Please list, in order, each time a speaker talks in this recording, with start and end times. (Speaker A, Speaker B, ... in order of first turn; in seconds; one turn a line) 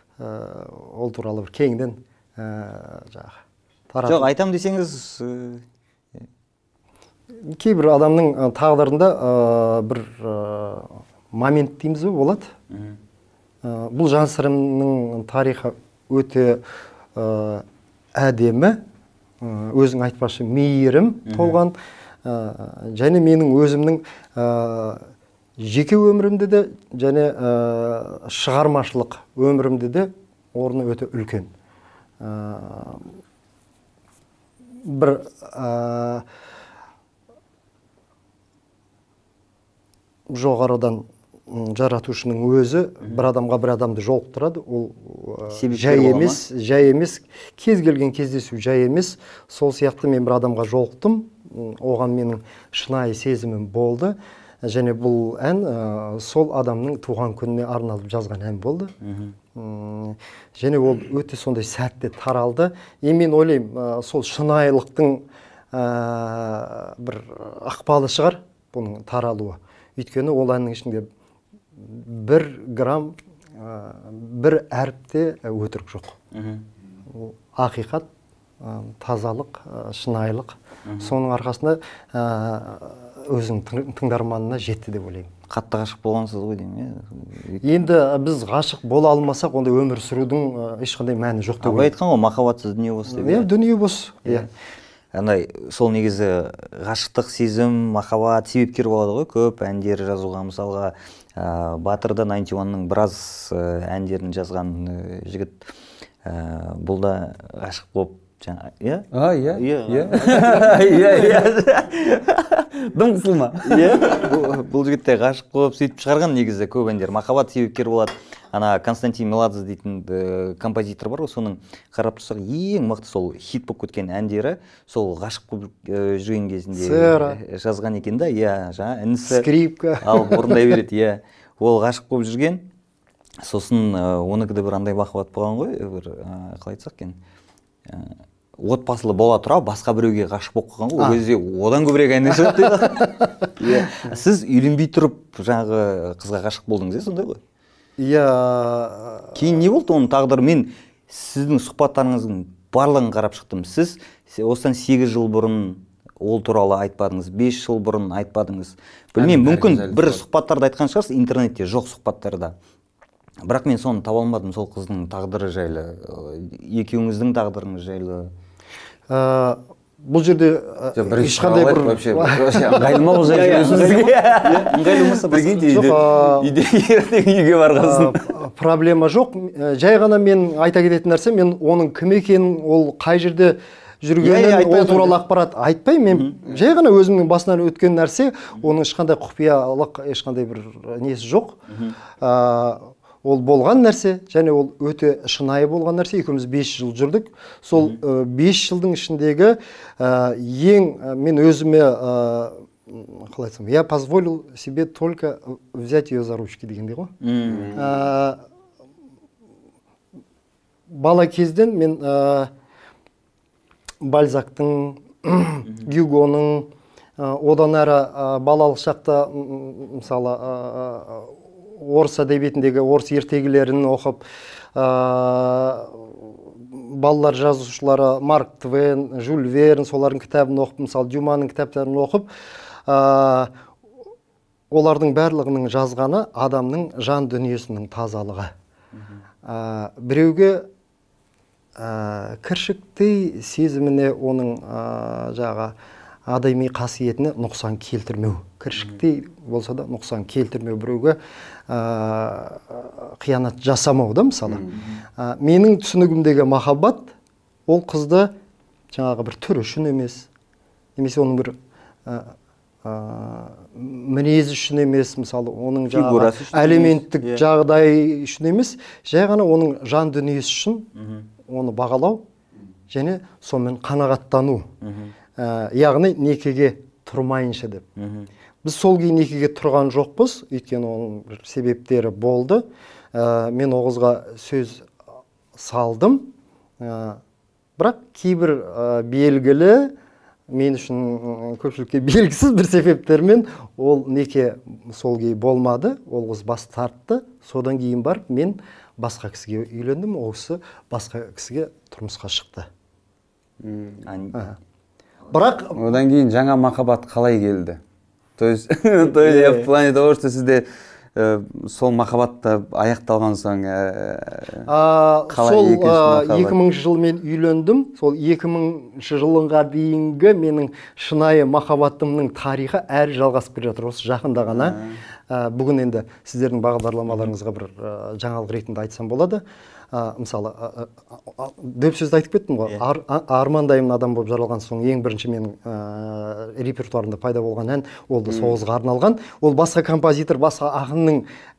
Speaker A: 0.2-4.3
Speaker B: 4.1-5.6
Speaker A: 7.4-12.5
Speaker A: 13.6-16.6
Speaker A: 17.1-18.8
Speaker A: 19.4-25.1
Speaker A: 25.6-31.5
Speaker A: 32.2-33.1
Speaker A: 34.8-36.2
Speaker A: 40.3-58.9
Speaker B: 45.5-46.4
Speaker A: 59.5-71.1
Speaker A: 71.8-76.2
Speaker B: 76.3-76.6
Speaker A: 77.1-78.1
Speaker A: 78.6-85.3
Speaker B: 80.9-81.1
Speaker B: 85.5-87.7
Speaker A: 87.6-91.9
Speaker B: 91.6-93.5
Speaker A: 93.1-94.5
Speaker B: 95.1-105.6
Speaker B: 106.2-111.5
Speaker C: 109.1-114.3
Speaker B: 113.6-129.5
Speaker A: 126.8-127.4
Speaker A: 129.3-130.8
Speaker B: 130.0-132.7
Speaker B: 133.4-137.2
Speaker B: 137.9-147.4
Speaker A: 141.0-141.2
Speaker A: 142.4-143.5
Speaker A: 148.0-149.4
Speaker B: 149.3-162.6
Speaker C: 159.2-160.2
Speaker B: 163.4-168.3
Speaker A: 169.1-173.3
Speaker C: 171.0-178.3
Speaker B: 173.2-175.8
Speaker A: 175.7-176.5
Speaker A: 177.8-191.6
Speaker B: 184.2-185.2
Speaker A: 192.2-207.1
Speaker B: 207.2-207.8
Speaker C: 207.5-207.9
Speaker A: 207.8-208.4
Speaker A: 210.9-212.5
Speaker A: 214.0-232.3
Speaker A: 232.9-233.5
Speaker A: 234.7-238.5
Speaker A: 239.4-240.7
Speaker A: 241.8-245.8
Speaker A: 246.3-257.1
Speaker A: 257.7-258.3
Speaker A: 258.9-260.3
Speaker A: 261.0-270.9
Speaker B: 265.9-267.4
Speaker B: 271.0-271.2
Speaker A: 271.4-272.2
Speaker A: 272.9-274.7
Speaker B: 274.8-275.1
Speaker A: 275.4-277.8
Speaker B: 278.0-278.3
Speaker A: 278.6-284.9
Speaker A: 285.6-287.2
Speaker A: 287.8-289.9
Speaker A: 290.5-302.7
Speaker C: 303.6-304.0
Speaker B: 304.1-304.4
Speaker A: 305.3-305.8
Speaker C: 305.8-307.8
Speaker C: 308.4-314.7
Speaker A: 309.3-309.6
Speaker A: 314.7-341.3
Speaker C: 315.3-316.6
Speaker C: 324.6-325.0